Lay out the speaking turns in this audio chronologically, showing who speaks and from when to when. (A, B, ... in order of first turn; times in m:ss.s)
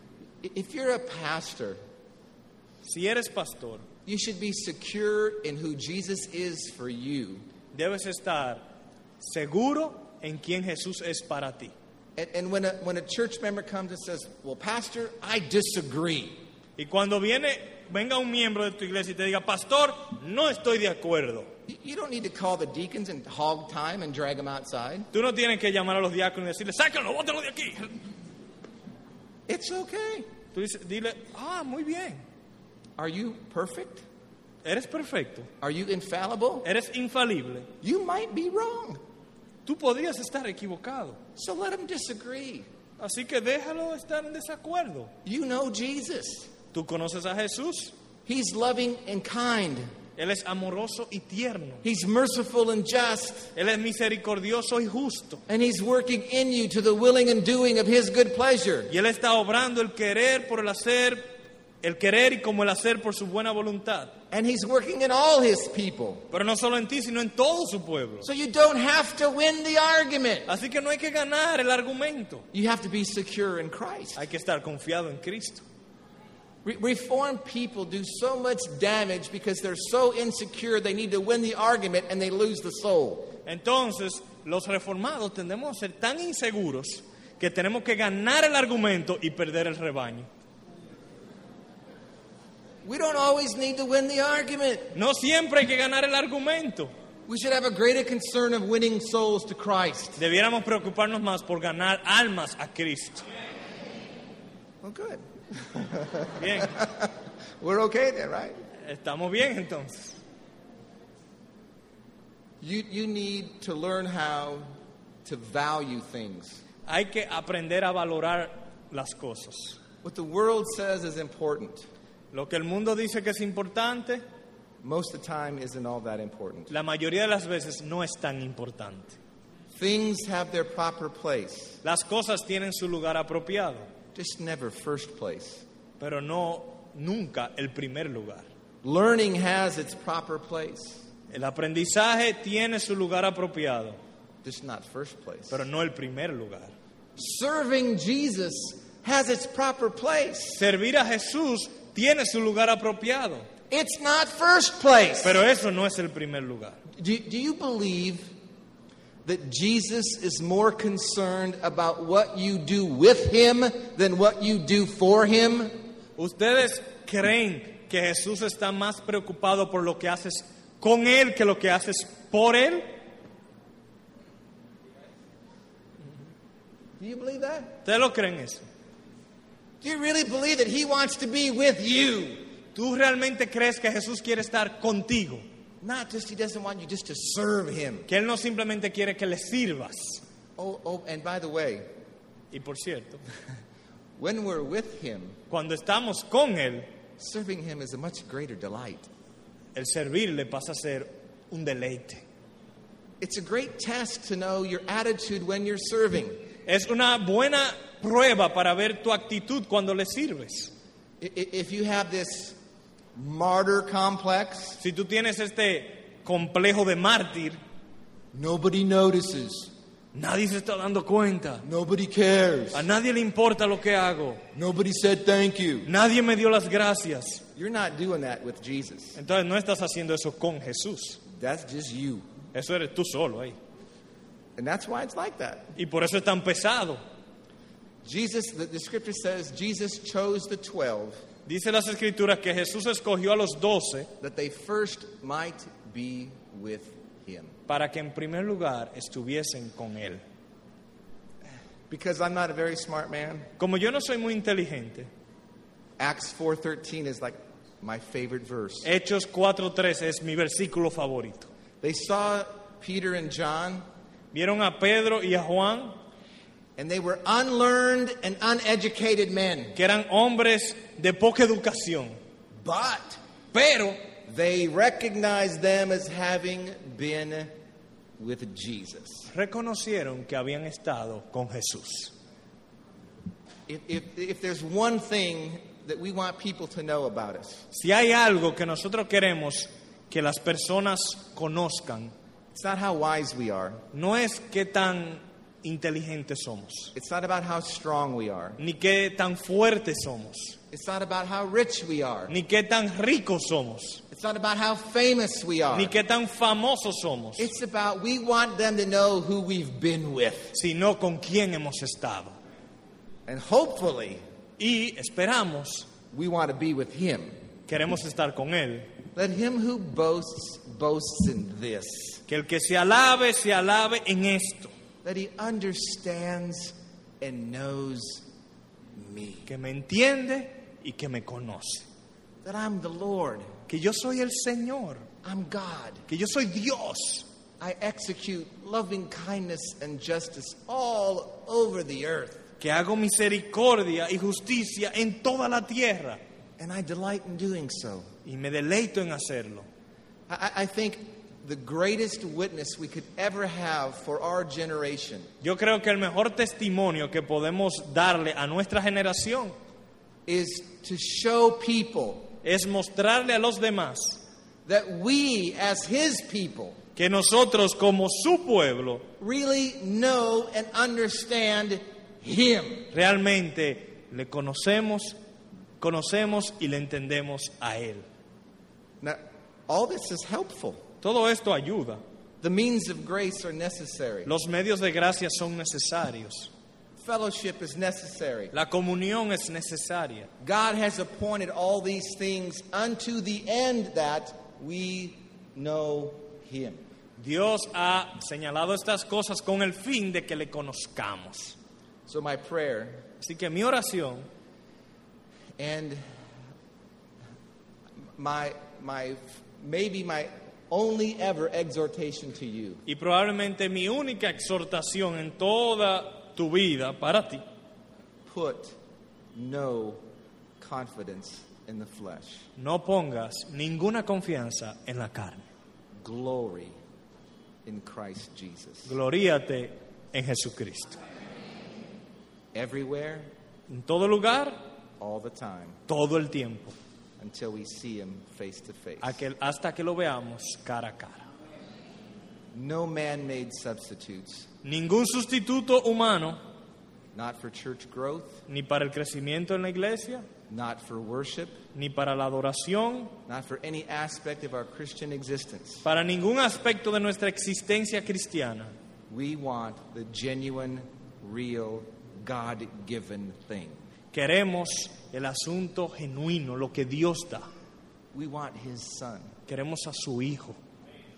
0:00.4-0:01.8 A
0:02.8-0:03.8 B
0:04.1-0:07.4 A
0:07.7-0:08.6 B
0:09.2-0:11.7 B
0:12.2-0:16.4 A
0:16.8-0:21.5 B
0:21.7-0:25.1 A
0:25.1-0:28.0 B
0:29.5-0:30.3 A
0:30.5-0:32.2 B
0:33.0-0:34.0 A
0:34.6-0:35.5 B
0:35.6-0:36.7 A
0:36.6-0:37.7 B
0:37.8-0:39.0 A
0:39.6-0:41.2 B
0:41.4-0:42.7 A
0:43.0-0:45.1 B
0:45.2-0:46.5 A
0:46.7-0:47.9 B
0:48.3-0:49.9 A
0:50.2-0:51.8 B
0:51.8-0:53.5 A
0:53.6-0:55.4 B
0:55.5-0:58.9 A
0:58.9-1:04.2 B
1:04.3-1:06.2 A
1:06.3-1:08.3 B
1:08.2-1:10.5 A
1:10.5-1:12.4 B
1:12.5-1:14.2 A
1:14.2-1:15.6 B
1:16.6-1:23.3 A
1:23.4-1:30.3 B
1:32.8-1:35.0 A
1:35.0-1:36.9 B
1:37.3-1:40.2 A
1:40.2-1:43.2 B
1:44.8-1:48.6 A
1:46.4-1:46.8 B
1:48.8-1:50.2 B
1:52.6-1:54.7 A
1:55.2-1:56.6 A
1:56.9-1:59.8 B
2:00.0-2:01.9 A
2:02.3-2:04.2 B
2:04.8-2:06.7 A
2:06.7-2:09.2 B
2:09.7-2:11.8 A
2:11.8-2:13.9 B
2:14.2-2:15.6 A
2:16.0-2:18.5 B
2:18.8-2:21.0 A
2:21.3-2:24.0 B
2:24.4-2:25.6 A
2:25.5-2:26.7 B
2:27.2-2:30.6 A
2:30.6-2:33.5 B
2:33.7-2:35.4 A
2:35.2-2:36.8 B
2:37.0-2:38.3 A
2:39.2-2:45.8 A
2:46.2-2:52.8 B
2:57.0-2:57.8 A
2:57.8-2:58.6 B
2:59.8-3:02.5 A
3:02.8-3:05.4 B
3:05.8-3:08.1 A
3:08.1-3:10.2 B
3:10.6-3:11.9 A
3:12.5-3:13.2 B
3:14.2-3:15.4 A
3:15.5-3:16.9 B
3:17.2-3:19.1 A
3:19.8-3:22.3 B
3:23.2-3:26.4 A
3:26.7-3:30.7 B
3:31.2-3:32.6 A
3:33.2-3:34.8 A
3:34.8-3:37.6 B
3:38.3-3:39.7 A
3:40.1-3:41.6 B
3:41.6-3:42.9 A
3:42.7-3:44.4 B
3:44.5-3:45.9 A
3:45.9-3:47.4 B
3:47.6-3:49.2 A
3:49.2-3:51.2 B
3:51.3-3:52.2 A
3:52.5-3:53.6 B
3:54.6-3:55.8 A
3:55.8-3:57.0 B
3:58.0-4:01.2 A
4:01.5-4:04.1 B
4:04.2-4:07.6 A
4:07.7-4:10.2 B
4:11.9-4:13.5 A
4:13.6-4:15.1 B
4:16.0-4:18.9 A
4:18.8-4:21.5 B
4:21.8-4:23.8 A
4:24.3-4:26.0 B
4:26.8-4:29.8 A
4:29.8-4:32.2 B
4:32.6-4:33.2 A
4:33.5-4:34.0 B
4:34.3-4:37.5 A
4:38.2-4:39.3 A
4:39.3-4:42.1 B
4:43.7-4:47.6 A
4:47.7-4:52.1 B
4:52.5-4:53.8 A
4:53.9-4:56.9 B
4:57.0-4:58.6 A
4:58.6-5:00.6 B
5:00.7-5:02.3 A
5:02.3-5:04.0 B
5:04.1-5:05.9 A
5:05.7-5:07.5 B
5:07.4-5:10.6 A
5:10.5-5:12.3 B
5:13.3-5:14.2 A
5:14.6-5:15.9 B
5:16.1-5:17.3 A
5:17.7-5:18.9 B
5:19.2-5:22.2 A
5:22.3-5:24.7 B
5:25.0-5:28.2 A
5:29.0-5:29.5 A
5:29.5-5:31.9 B
5:32.4-5:33.5 A
5:33.7-5:35.1 B
5:35.2-5:36.0 A
5:36.1-5:37.3 B
5:37.6-5:42.5 A
5:42.6-5:46.2 B
5:46.6-5:48.1 A
5:48.2-5:49.7 B
5:50.3-5:55.3 A
5:55.4-5:59.6 B
6:00.3-6:02.3 A
6:02.4-6:04.2 B
6:04.7-6:06.8 A
6:07.0-6:09.1 B
6:09.2-6:12.9 A
6:12.9-6:15.2 B
6:15.8-6:18.1 B
6:19.0-6:20.9 A
6:21.0-6:22.0 B
6:22.4-6:24.3 A
6:24.3-6:26.5 B
6:27.0-6:28.5 A
6:28.5-6:30.3 B
6:30.4-6:36.8 A
6:37.2-6:41.6 B
6:42.1-6:43.1 A
6:43.2-6:44.3 B
6:45.6-6:46.0 A
6:48.2-6:52.8 A
6:52.9-6:57.4 B
6:58.3-6:58.8 A
6:59.4-7:00.0 A
7:00.6-7:02.5 A
7:02.6-7:05.4 B
7:06.0-7:06.8 A
7:07.6-7:09.0 A
7:08.9-7:11.0 B
7:12.5-7:13.3 A
7:13.7-7:14.6 B
7:15.0-7:15.8 A
7:15.9-7:16.8 B
7:17.2-7:19.2 A
7:19.0-7:21.3 B
7:22.5-7:24.5 A
7:24.6-7:26.4 B
7:27.2-7:28.4 A
7:28.5-7:30.3 B
7:30.5-7:31.6 A
7:31.7-7:33.1 B
7:33.3-7:35.8 A
7:35.8-7:38.7 B
7:39.1-7:43.9 A
7:44.1-7:47.5 B
7:48.1-7:49.4 A
7:49.5-7:50.6 B